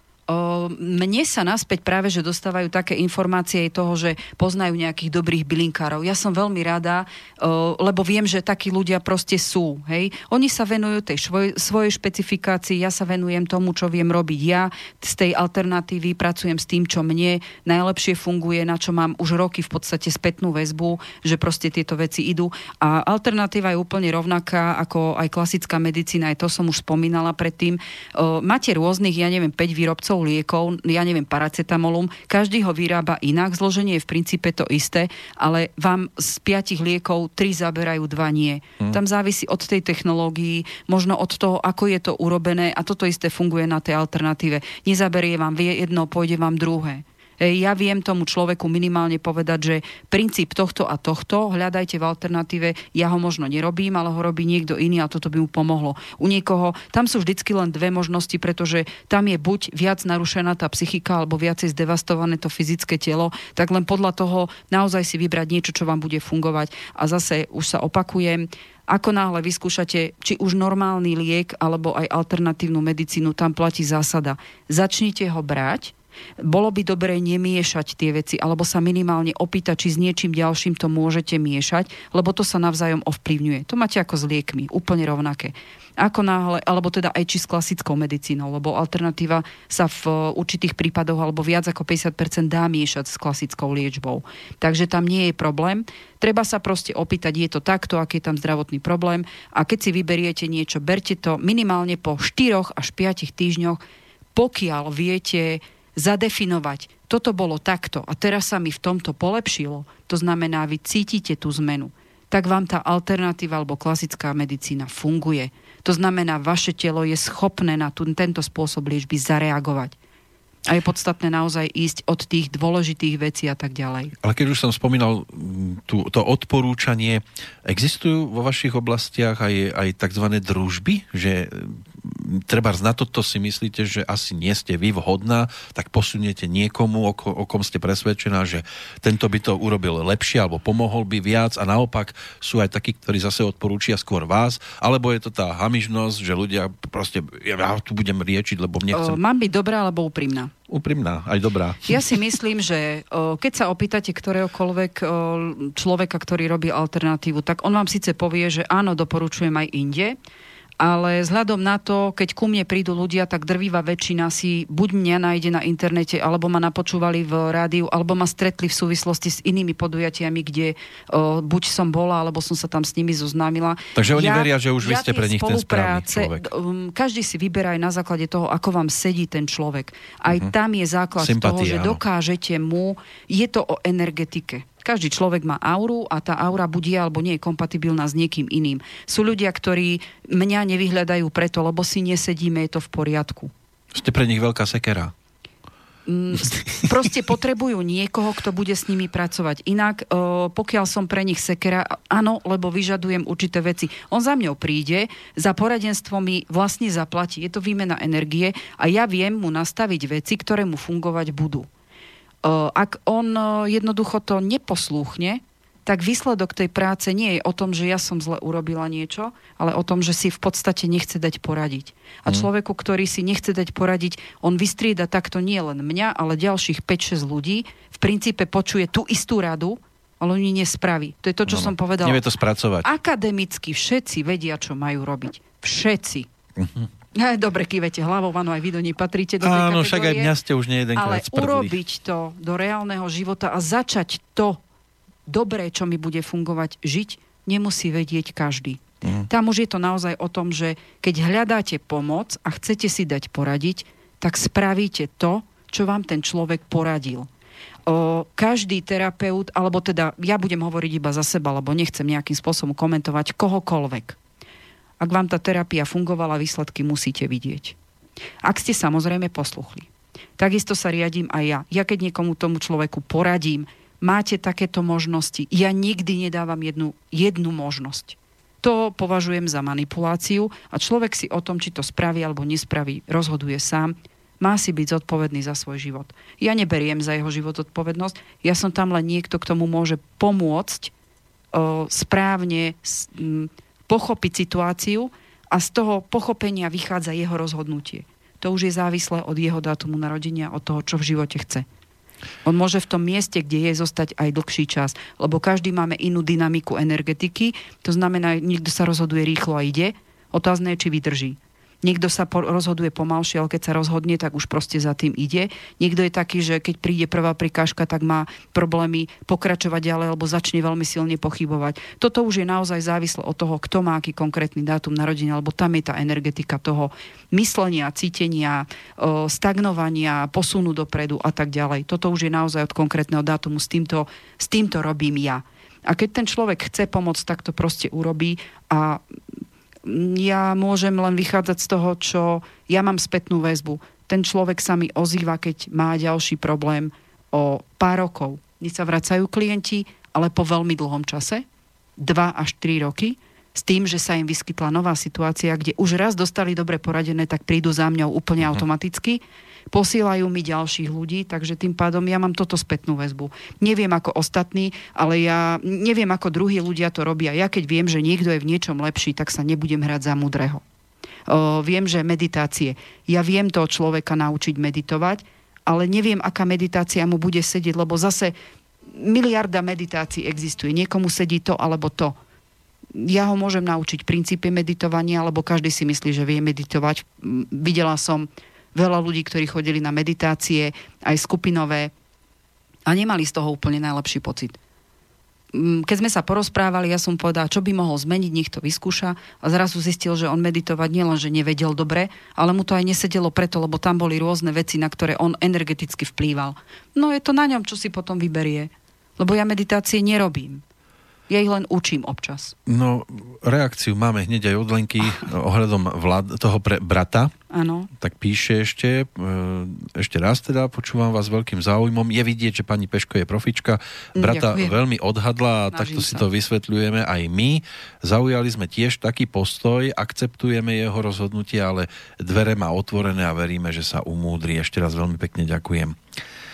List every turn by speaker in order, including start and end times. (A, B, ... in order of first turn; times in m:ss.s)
0:00.3-1:43.8 A
1:44.3-1:59.9 A
2:00.7-2:04.1 A
2:04.2-2:29.2 B
2:28.9-2:30.5 A
2:30.7-2:32.0 B
2:31.9-2:40.2 A
2:40.8-3:13.5 A
2:53.9-2:56.5 B
3:01.2-3:02.0 B
3:13.9-3:15.1 B
3:16.0-3:31.7 A
3:32.4-3:52.2 A
3:51.4-3:52.9 B
3:52.8-3:56.3 A
3:56.6-3:56.9 B
3:57.1-4:00.3 A
3:59.4-4:01.7 B
4:00.9-4:04.6 A
4:05.3-4:17.3 A
4:09.0-4:09.3 B
4:17.9-4:24.2 A
4:25.0-4:27.8 A
4:28.4-4:50.9 A
4:51.5-5:01.6 A
5:02.4-5:39.0 A
5:39.8-5:51.4 A
5:52.0-5:59.2 A
5:59.7-6:10.6 A
6:11.3-6:18.3 A
6:18.9-6:22.1 A
6:22.9-6:31.9 A
6:32.8-6:34.6 A
6:35.5-6:50.6 A
6:51.3-6:52.5 A
6:52.6-6:57.3 B
6:57.5-6:57.9 A
6:58.0-7:16.0 B
7:04.2-7:04.8 A
7:05.7-7:06.3 A